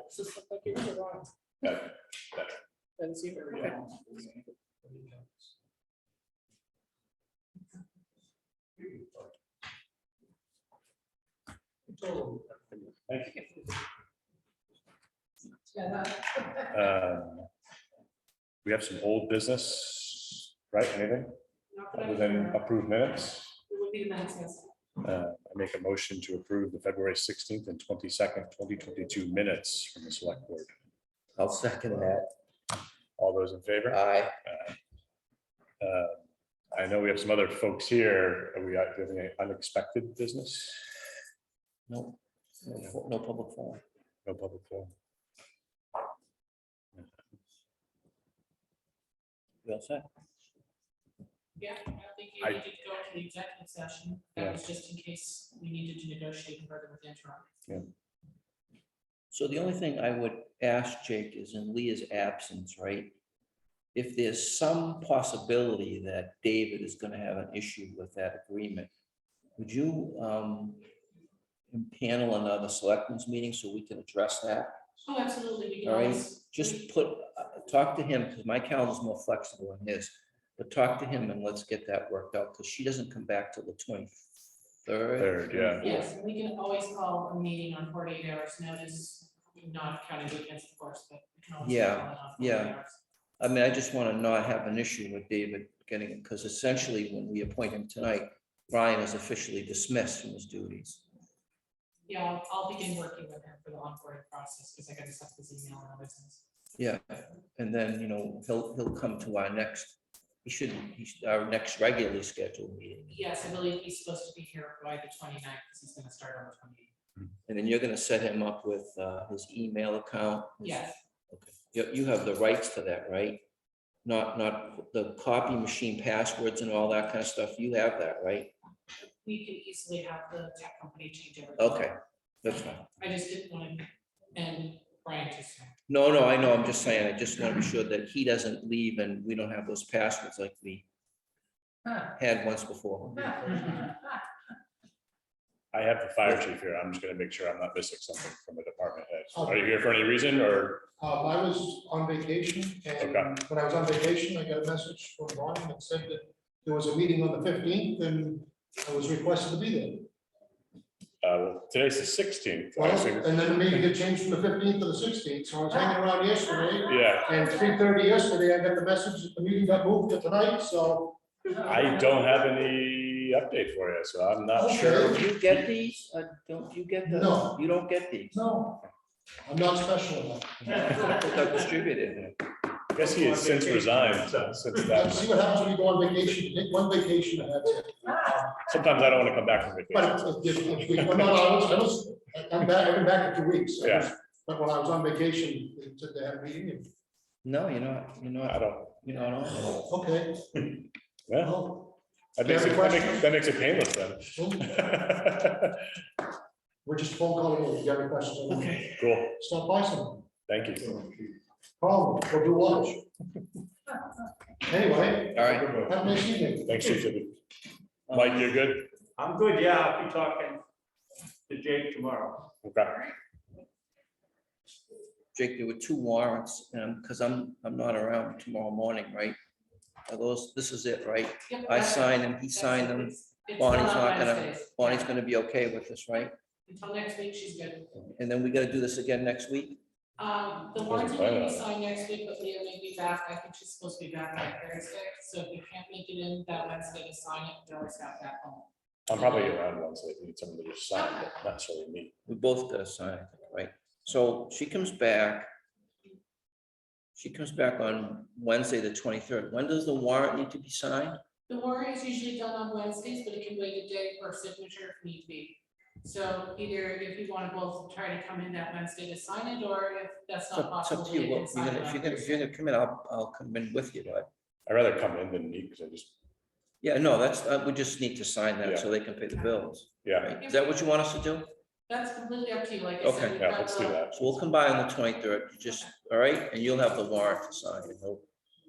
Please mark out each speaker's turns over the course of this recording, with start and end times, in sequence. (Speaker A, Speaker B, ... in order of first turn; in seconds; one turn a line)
Speaker A: 0.2-1.2
Speaker B: 1.6-2.6
Speaker A: 3.0-3.8
Speaker B: 13.1-13.5
Speaker A: 15.7-16.5
Speaker B: 16.7-17.5
Speaker B: 18.6-21.3
Speaker A: 21.7-22.6
Speaker B: 21.9-23.5
Speaker A: 23.7-24.7
Speaker B: 25.0-30.7
Speaker C: 31.4-32.3
Speaker B: 33.2-34.8
Speaker C: 33.9-34.4
Speaker B: 35.8-36.2
Speaker B: 36.7-40.8
Speaker C: 41.9-43.8
Speaker B: 44.3-44.9
Speaker C: 49.6-50.1
Speaker A: 51.6-57.5
Speaker C: 59.3-63.2
Speaker C: 63.9-68.9
Speaker C: 69.6-70.8
Speaker C: 71.7-74.8
Speaker A: 75.0-76.8
Speaker C: 75.8-84.2
Speaker C: 84.8-86.1
Speaker B: 85.2-85.8
Speaker A: 85.8-93.0
Speaker C: 91.6-92.8
Speaker C: 93.4-101.0
Speaker A: 102.1-106.4
Speaker C: 106.8-113.2
Speaker A: 113.1-116.9
Speaker C: 117.5-123.4
Speaker A: 120.6-121.0
Speaker C: 124.0-128.5
Speaker A: 129.2-131.9
Speaker C: 131.6-132.9
Speaker A: 132.9-135.7
Speaker C: 135.9-140.9
Speaker C: 142.1-143.6
Speaker B: 145.7-150.9
Speaker D: 149.3-149.7
Speaker D: 151.0-160.1
Speaker B: 153.0-153.3
Speaker B: 161.2-163.8
Speaker D: 162.8-171.2
Speaker B: 166.9-167.3
Speaker B: 171.6-175.0
Speaker D: 174.6-175.2
Speaker C: 174.7-178.4
Speaker D: 177.1-177.6
Speaker D: 178.3-178.9
Speaker D: 179.5-181.1
Speaker C: 180.7-182.3
Speaker B: 182.9-185.3
Speaker E: 183.0-184.6
Speaker D: 184.9-188.6
Speaker B: 188.6-191.1
Speaker D: 189.9-196.9
Speaker B: 193.8-194.1
Speaker C: 197.4-199.8
Speaker B: 198.4-198.9
Speaker D: 199.9-200.8
Speaker B: 201.3-201.7
Speaker D: 201.4-203.3
Speaker B: 202.4-205.8
Speaker D: 204.3-204.8
Speaker D: 206.8-210.3
Speaker B: 209.0-209.4
Speaker B: 210.5-211.0
Speaker D: 211.8-213.1
Speaker D: 214.7-216.9
Speaker C: 215.3-215.9
Speaker E: 215.5-215.9
Speaker B: 216.6-217.4
Speaker C: 218.1-218.5
Speaker B: 218.1-218.9
Speaker E: 219.2-220.6
Speaker E: 221.5-222.5
Speaker B: 222.6-223.0
Speaker C: 225.3-229.4
Speaker C: 230.1-236.3
Speaker A: 231.5-235.1
Speaker A: 236.7-237.9
Speaker C: 238.2-239.8
Speaker A: 240.2-249.6
Speaker B: 240.8-241.7
Speaker B: 249.1-252.1
Speaker A: 251.0-251.3
Speaker C: 252.3-255.5
Speaker C: 257.2-261.2
Speaker A: 261.5-272.4
Speaker C: 270.5-274.3
Speaker B: 274.7-276.1
Speaker C: 276.8-281.5
Speaker B: 278.6-278.9
Speaker B: 280.0-280.3
Speaker A: 280.4-280.7
Speaker A: 281.9-284.1
Speaker C: 283.0-283.5
Speaker B: 283.4-284.3
Speaker C: 284.1-288.3